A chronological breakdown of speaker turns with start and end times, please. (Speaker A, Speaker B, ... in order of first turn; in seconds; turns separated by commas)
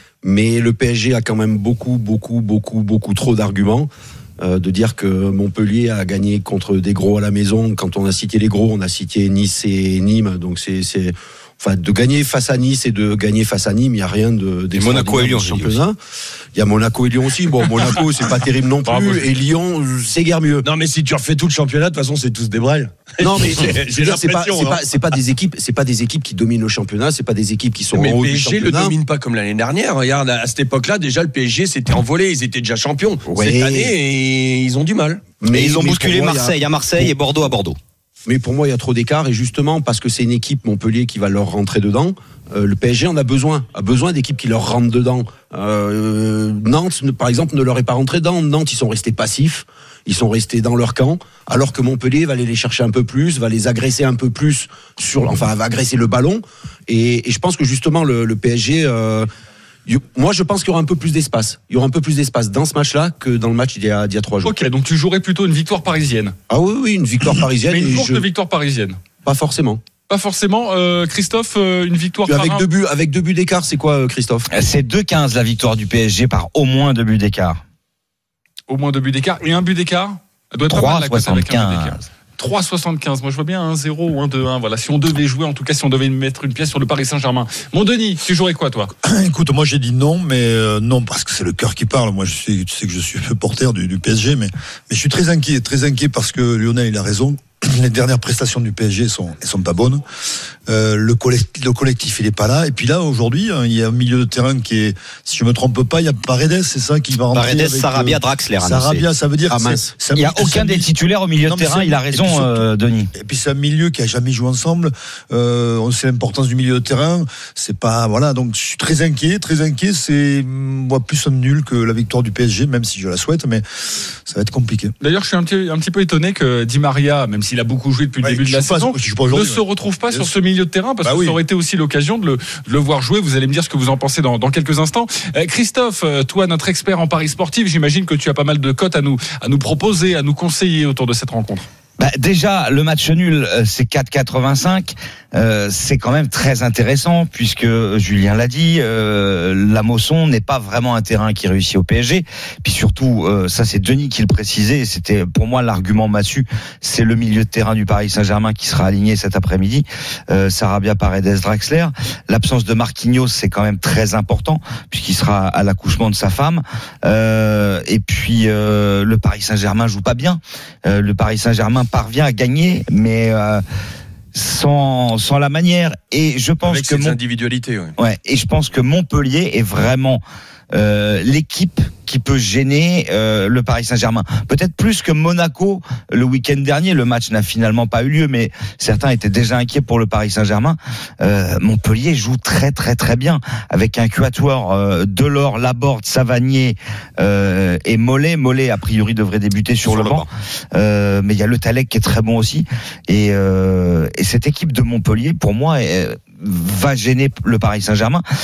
Speaker A: 0.2-3.9, Speaker A: 4.4-16.0, Speaker B: 14.7-15.8, Speaker A: 16.5-20.6, Speaker C: 18.8-19.2, Speaker C: 20.6-24.8, Speaker A: 23.2-28.9, Speaker C: 27.9-35.2, Speaker A: 33.2-33.9, Speaker A: 35.4-37.1, Speaker B: 35.5-37.8, Speaker A: 38.2-59.3, Speaker A: 59.9-64.6, Speaker D: 64.4-66.3, Speaker A: 66.5-68.2, Speaker D: 67.7-69.0, Speaker A: 69.2-69.8, Speaker D: 70.1-72.7, Speaker A: 72.3-74.5, Speaker E: 74.5-77.6, Speaker D: 78.7-88.9, Speaker E: 80.7-82.0, Speaker F: 89.0-100.0, Speaker F: 100.7-110.9, Speaker B: 107.3-109.0, Speaker A: 109.5-109.9, Speaker E: 110.2-113.1, Speaker F: 111.5-112.6, Speaker F: 113.1-123.6, Speaker F: 124.2-124.9, Speaker D: 125.0-141.7, Speaker F: 128.2-130.3, Speaker F: 131.0-131.4, Speaker E: 142.0-173.6, Speaker E: 174.3-177.2, Speaker C: 176.6-177.9, Speaker E: 177.9-208.2, Speaker B: 199.8-200.3